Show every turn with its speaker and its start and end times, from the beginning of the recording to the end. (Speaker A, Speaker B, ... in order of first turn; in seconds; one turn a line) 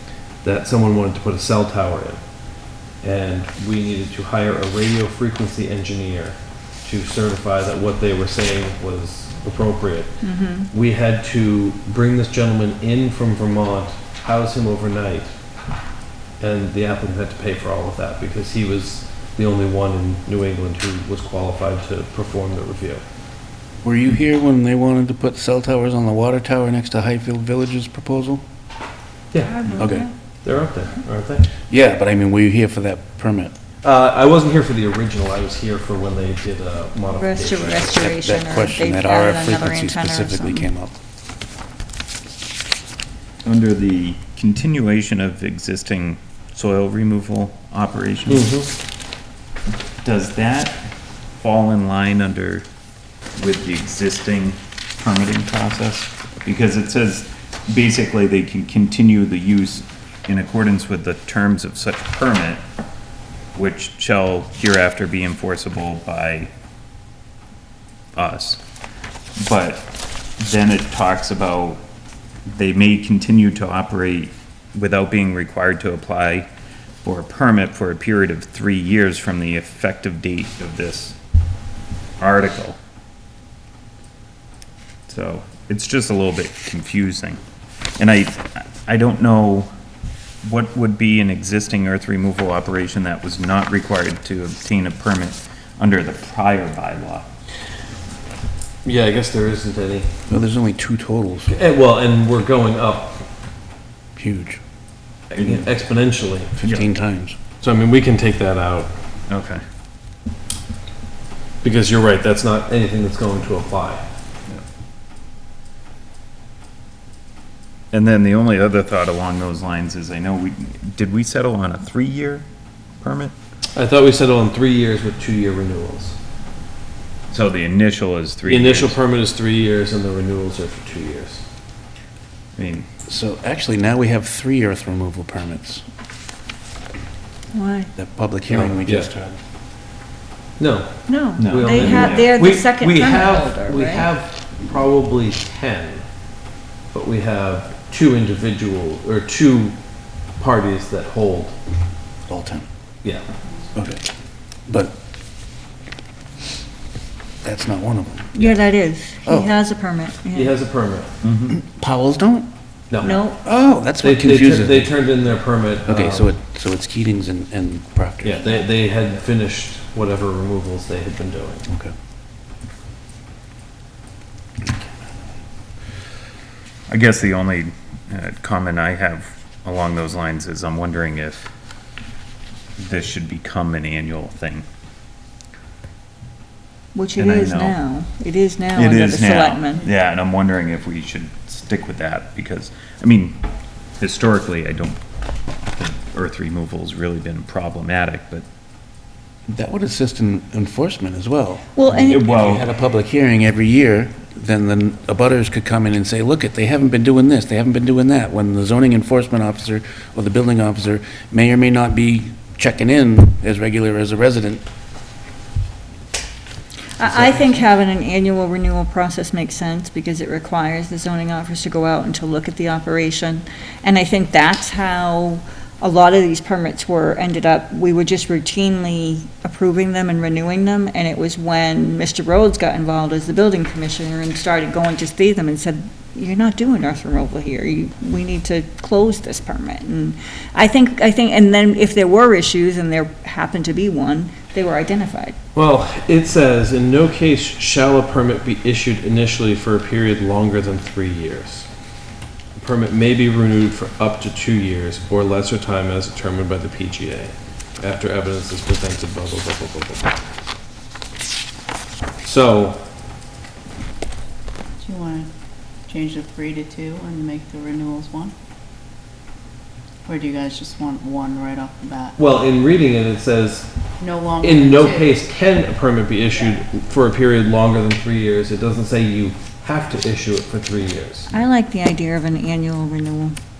Speaker A: 0.4-15.3
Speaker B: 10.2-10.7
Speaker A: 16.4-23.0
Speaker C: 23.8-28.4
Speaker A: 29.3-29.9
Speaker B: 29.4-30.1
Speaker C: 29.8-30.1
Speaker A: 30.4-31.5
Speaker C: 31.7-33.5
Speaker A: 33.8-38.2
Speaker B: 37.2-40.7
Speaker C: 38.2-40.9
Speaker D: 43.4-48.6
Speaker A: 48.3-48.7
Speaker D: 50.0-50.8
Speaker D: 51.4-52.7
Speaker D: 53.4-62.6
Speaker D: 63.5-66.5
Speaker D: 68.2-68.6
Speaker D: 69.4-69.9
Speaker D: 70.4-71.8
Speaker D: 72.5-76.5
Speaker D: 77.0-81.2
Speaker D: 82.2-82.8
Speaker D: 85.1-87.4
Speaker D: 88.0-89.7
Speaker D: 90.4-97.3
Speaker A: 98.8-100.1
Speaker C: 100.3-101.6
Speaker A: 101.5-103.2
Speaker C: 104.2-104.6
Speaker D: 105.3-105.7
Speaker A: 105.4-106.5
Speaker C: 106.6-107.4
Speaker D: 106.6-106.9
Speaker A: 107.6-109.0
Speaker D: 109.3-109.6
Speaker A: 111.6-114.1
Speaker D: 117.9-122.5
Speaker D: 123.0-123.3
Speaker A: 123.8-126.2
Speaker D: 127.3-129.0
Speaker A: 128.5-131.4
Speaker D: 132.6-132.9
Speaker C: 133.1-135.8
Speaker B: 137.5-137.9
Speaker C: 138.0-139.4
Speaker A: 138.5-139.1
Speaker A: 140.6-146.1
Speaker B: 141.1-144.1
Speaker D: 141.4-142.4
Speaker A: 146.9-149.8
Speaker A: 150.3-151.6
Speaker C: 152.3-152.7
Speaker C: 153.8-154.1
Speaker C: 154.7-155.0
Speaker C: 157.4-158.5
Speaker B: 158.3-160.6
Speaker C: 159.2-159.5
Speaker A: 160.3-161.1
Speaker D: 161.2-161.6
Speaker C: 161.5-162.5
Speaker A: 162.9-163.2
Speaker B: 163.0-163.4
Speaker C: 163.0-164.9
Speaker A: 164.0-166.3
Speaker C: 165.9-168.4
Speaker A: 168.2-171.7
Speaker C: 171.7-171.9
Speaker D: 176.9-181.5
Speaker D: 182.8-184.7
Speaker B: 186.9-189.9
Speaker D: 187.2-187.8
Speaker D: 188.8-193.4
Speaker D: 194.0-195.0
Speaker D: 195.8-198.4
Speaker C: 199.5-214.6
Speaker B: 201.8-202.3
Speaker D: 202.1-202.7
Speaker B: 217.0-245.4
Speaker A: 245.6-251.7
Speaker A: 252.6-260.1
Speaker A: 262.2-262.8
Speaker E: 264.8-265.3
Speaker E: 265.9-268.3
Speaker E: 270.1-272.2
Speaker A: 272.2-273.7
Speaker E: 274.0-275.1
Speaker A: 274.4-281.3
Speaker B: 281.3-283.4